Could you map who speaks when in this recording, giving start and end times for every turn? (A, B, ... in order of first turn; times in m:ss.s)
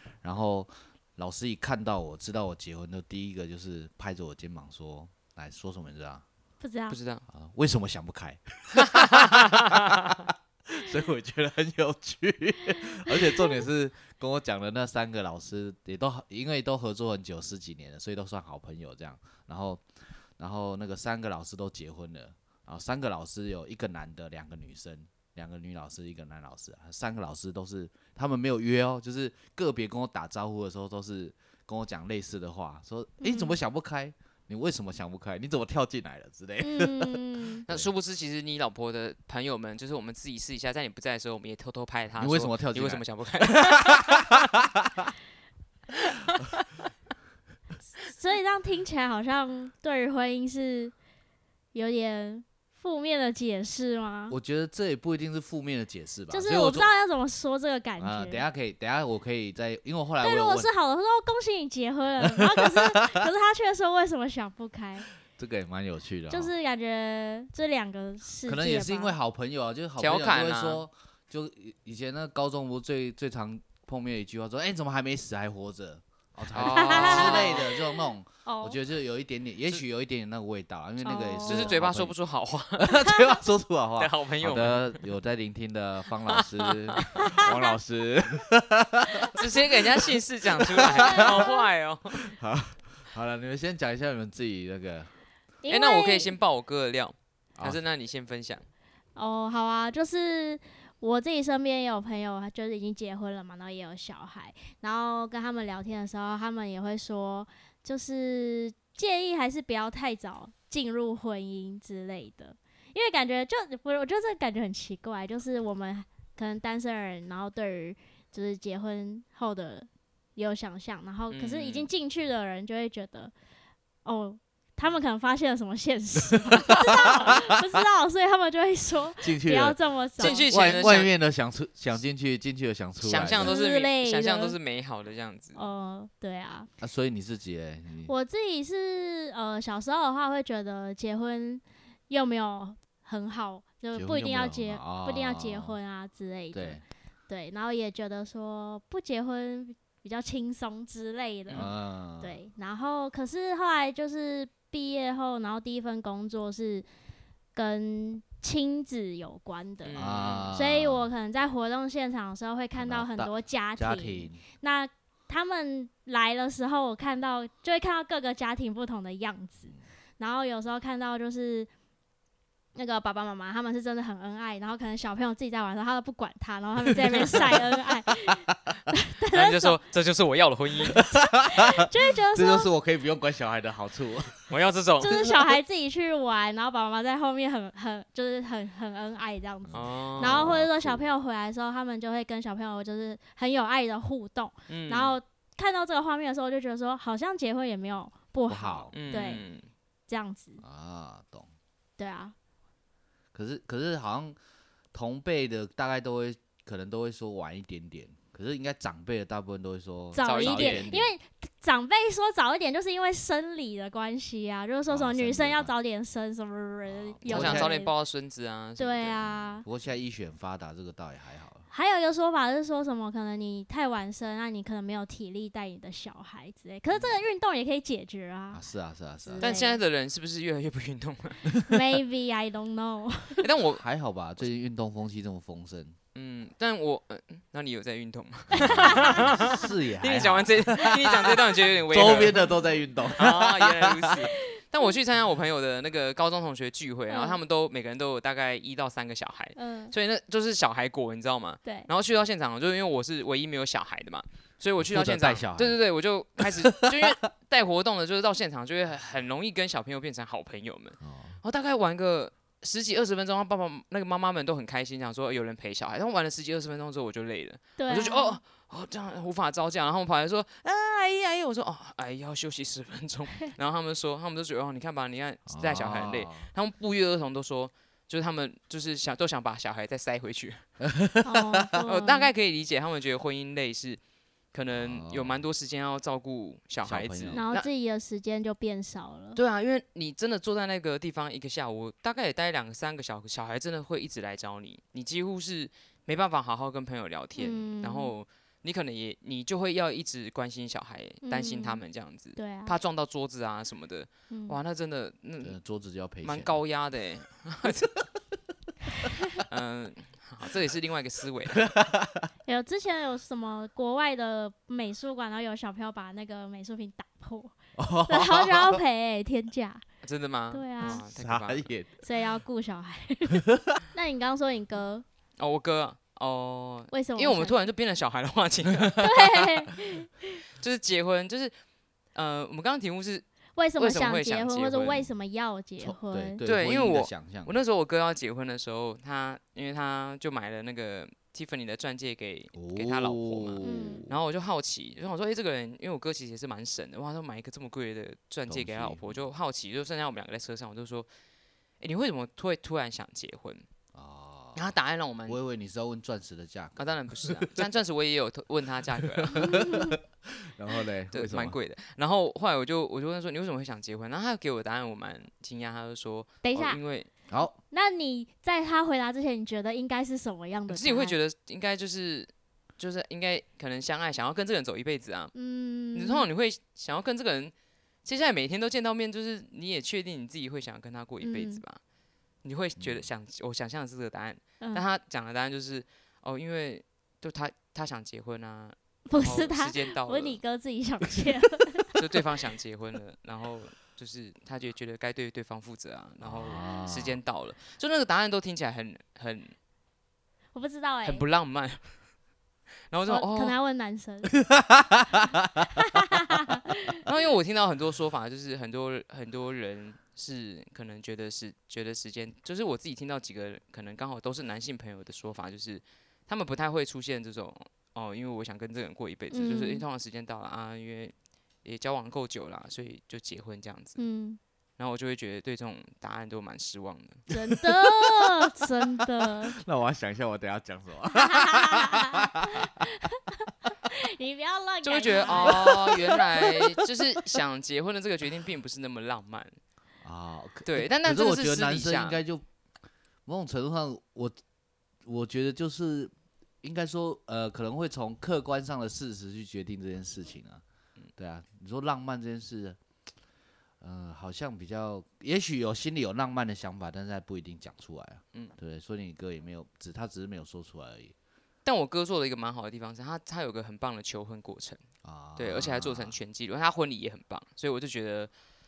0:00.2-0:06.2 A
0:06.6-0:07.0 B
0:06.9-0:07.2 C
0:07.3-0:37.9 A
0:08.8-0:10.1 C
0:33.2-0:33.6 B
0:36.6-0:37.6 B
0:37.6-0:44.4 C
0:42.2-0:45.1 A
0:46.0-0:46.7 C
0:48.0-0:50.9 B
0:51.7-0:54.4 B
0:54.3-0:56.9 A
0:56.3-0:58.4 B
0:58.0-1:00.7 A
1:00.2-1:05.1 B
1:02.2-1:03.2 A
1:05.3-1:06.5 A
1:06.3-1:09.1 B
1:08.4-1:22.1 A
1:10.0-1:10.8 C
1:16.5-1:17.7 C
1:16.7-1:17.8 B
1:18.4-1:18.8 B
1:21.0-1:21.7 B
1:21.4-1:22.9 C
1:22.8-1:31.5 A
1:24.0-1:25.0 C
1:26.3-1:27.4 C
1:27.2-1:27.6 B
1:29.3-1:32.3 C
1:30.8-1:31.6 B
1:32.1-1:35.1 A
1:35.6-1:36.3 B
1:35.7-1:38.6 C
1:39.2-2:03.3 B
2:01.3-2:01.9 C
2:04.0-2:10.9 B
2:06.6-2:07.0 A
2:09.2-2:13.5 A
2:10.2-2:11.1 C
2:13.0-2:15.6 C
2:13.3-2:14.6 B
2:15.5-2:16.7 B
2:16.8-2:18.1 A
2:18.0-2:36.8 B
2:23.9-2:25.8 A
2:26.5-2:26.8 A
2:31.6-2:32.4 A
2:37.5-2:51.7 B
2:39.8-2:40.5 C
2:40.0-2:41.1 A
2:42.8-2:44.4 A
2:52.8-2:59.8 B
2:57.3-2:57.6 A
2:59.3-3:01.0 C
3:00.8-3:04.5 A
3:01.5-3:02.7 B
3:04.5-3:05.2 C
3:05.0-3:19.4 B
3:09.6-3:11.0 A
3:09.7-3:10.5 C
3:14.7-3:15.1 C
3:18.5-3:19.3 A
3:18.9-3:19.7 C
3:20.1-3:20.6 B
3:20.6-3:21.5 A
3:22.0-3:22.3 B
3:23.3-3:24.4 A
3:24.9-3:31.1 A
3:30.1-3:37.9 B
3:30.2-3:30.9 C
3:34.9-3:35.7 A
3:36.9-3:37.7 A
3:37.2-3:39.2 C
3:38.8-3:39.6 B
3:39.2-3:41.7 A
3:41.7-3:48.6 B
3:48.5-3:49.6 A
3:49.2-3:49.8 B
3:49.4-3:51.4 C
3:51.6-3:53.4 B
3:53.4-3:53.8 C
3:53.8-3:56.0 A
3:56.1-4:02.4 C
3:58.5-4:04.3 A
3:58.6-3:59.2 B
4:03.2-4:40.6 C
4:07.1-4:07.4 B
4:09.5-4:09.9 B
4:14.8-4:15.8 A
4:16.4-4:17.1 A
4:21.0-4:21.4 A
4:27.8-4:28.4 B
4:35.5-4:36.5 A
4:40.8-4:41.7 A
4:41.2-4:42.3 B
4:41.8-4:44.0 C
4:44.5-4:47.7 C
4:44.7-4:45.4 A
4:46.8-4:47.4 A
4:47.3-4:49.4 B
4:49.4-5:05.6 C
4:57.4-4:58.1 B
5:01.2-5:01.8 B
5:02.4-5:02.8 B
5:04.3-5:04.6 B
5:05.4-5:06.6 A
5:06.2-5:07.9 C
5:09.4-5:11.7 C
5:11.6-5:12.3 A
5:12.4-5:17.5 B
5:17.8-5:18.8 A
5:18.0-5:19.8 B
5:20.0-5:21.7 C
5:20.5-5:21.0 B
5:20.8-5:22.0 A
5:22.0-5:25.0 B
5:23.4-5:23.8 A
5:25.4-5:29.5 C
5:26.9-5:27.6 B
5:29.0-5:30.4 B
5:30.6-5:31.5 C
5:32.1-5:33.2 C
5:33.6-5:36.4 B
5:33.8-5:35.0 C
5:35.8-5:37.5 A
5:36.4-5:51.1 C
5:42.5-5:44.2 A
5:43.6-5:44.0 B
5:48.5-5:49.2 A
5:51.8-5:53.6 C
5:53.9-5:54.7 A
5:54.5-5:55.4 C
5:55.2-5:57.6 A
5:56.8-5:59.4 C
5:59.0-6:01.6 A
5:59.4-6:00.0 B
6:01.1-6:07.1 C
6:06.4-6:06.8 B
6:07.3-6:07.5 A
6:07.7-6:11.2 B
6:10.7-6:15.3 C
6:15.3-6:16.2 B
6:15.9-6:17.5 C
6:18.0-6:21.8 C
6:21.2-6:21.6 B
6:22.4-6:30.4 C
6:22.8-6:23.1 A
6:29.1-6:31.9 B
6:31.9-6:39.5 C
6:36.2-6:37.2 A
6:40.5-6:41.2 B
6:41.0-6:41.9 C
6:42.9-6:43.5 C
6:43.1-6:44.3 B
6:44.4-6:45.8 A
6:45.7-6:47.0 B
6:47.0-7:01.1 C
6:59.3-6:59.8 B
7:01.6-7:04.0 C
7:04.0-7:04.4 B
7:04.8-7:07.2 C
7:07.3-7:09.6 B
7:07.5-7:08.1 A
7:08.6-7:12.7 A
7:11.1-7:16.2 B
7:14.8-7:19.6 C
7:15.3-7:15.9 A
7:20.0-7:22.4 A
7:20.6-7:22.2 C
7:23.2-7:24.4 A
7:25.0-7:30.6 A
7:31.2-7:32.8 A
7:33.8-7:41.1 A
7:41.6-7:44.8 C
7:45.0-7:46.2 A
7:45.4-7:48.3 C